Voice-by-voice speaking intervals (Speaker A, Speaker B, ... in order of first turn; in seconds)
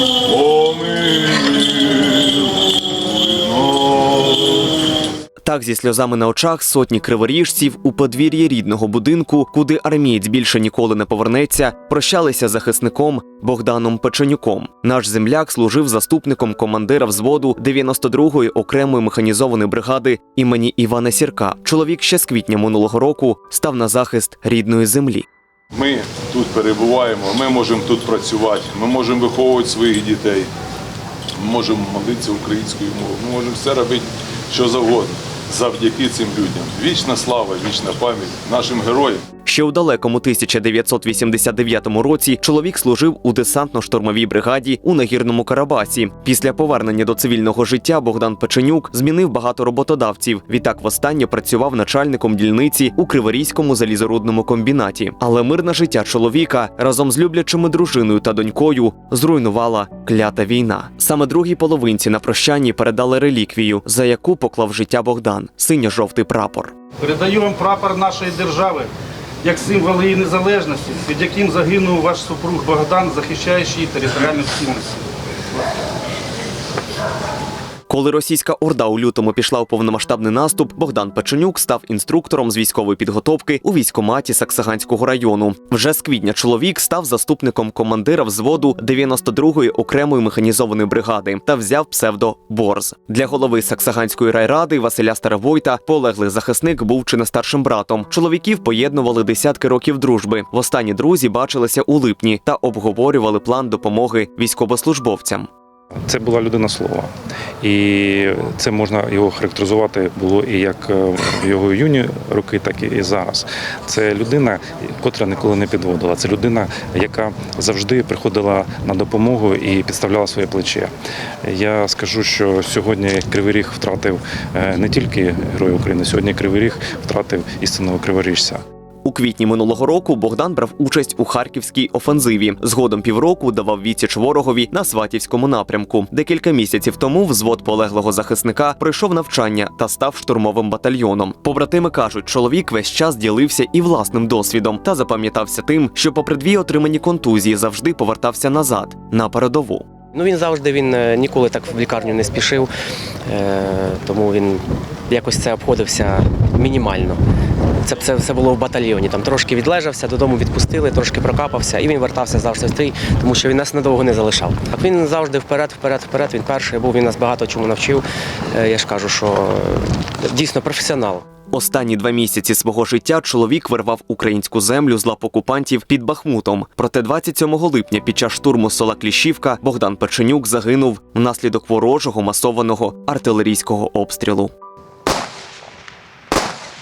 Speaker A: 0.2-2.5, 3.1-4.4, 25.7-30.5, 31.4-39.2
Speaker B: 5.4-25.3, 39.5-66.7, 77.9-105.5, 129.1-149.9, 171.5-184.5
Speaker C: 67.0-68.9, 69.4-75.0
Speaker D: 106.1-107.1, 107.6-120.9, 121.5-128.6
Speaker E: 150.1-152.7, 153.3-157.2, 157.8-171.2